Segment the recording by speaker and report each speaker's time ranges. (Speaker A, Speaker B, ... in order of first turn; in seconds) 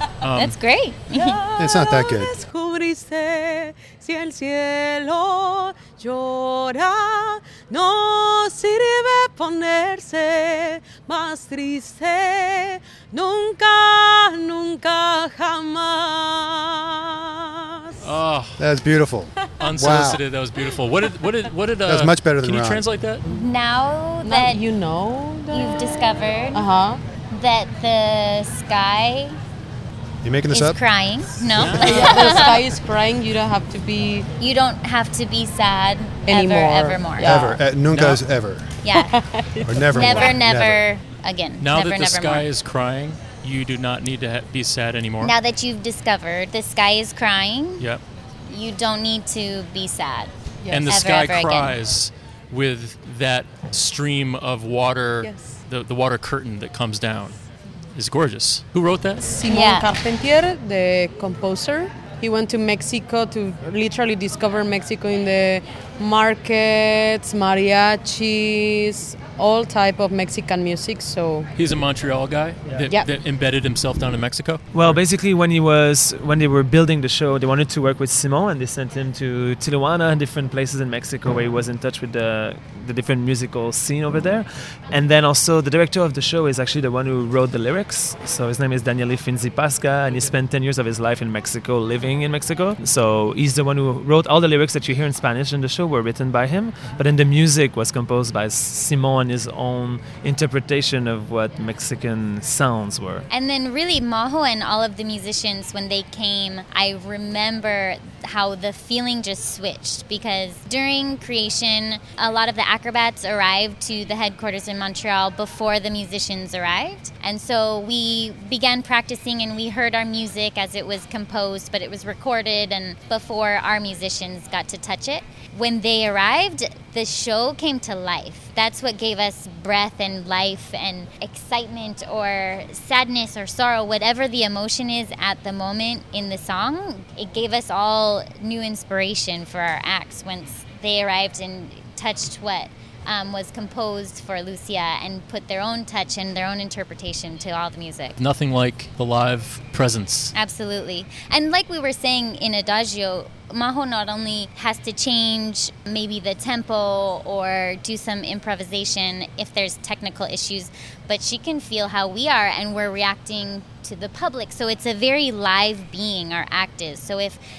Speaker A: 0.2-0.6, 18.0-18.7, 19.6-23.2, 31.6-32.5, 37.9-38.2, 41.6-45.3, 50.7-57.4, 58.0-59.4, 71.6-75.0, 148.2-150.3
Speaker B: 0.4-1.4, 23.3-24.6, 25.5-26.7, 27.3-29.4, 30.5-32.6, 34.4-37.3, 38.8-39.1, 39.9-42.5, 45.2-47.9, 48.5-50.3, 50.9-51.8, 59.5-59.9, 103.3-148.2, 150.3-167.4
Speaker C: 1.1-18.2, 24.2-27.0, 31.8-34.3, 36.3-37.6, 38.9-40.4, 50.6-50.9, 55.2-55.5, 59.3-71.5
Speaker D: 1.6-2.3, 18.6-20.1, 21.9-22.8, 30.2-30.8, 37.3-38.6, 39.7-40.8
Speaker E: 74.7-103.3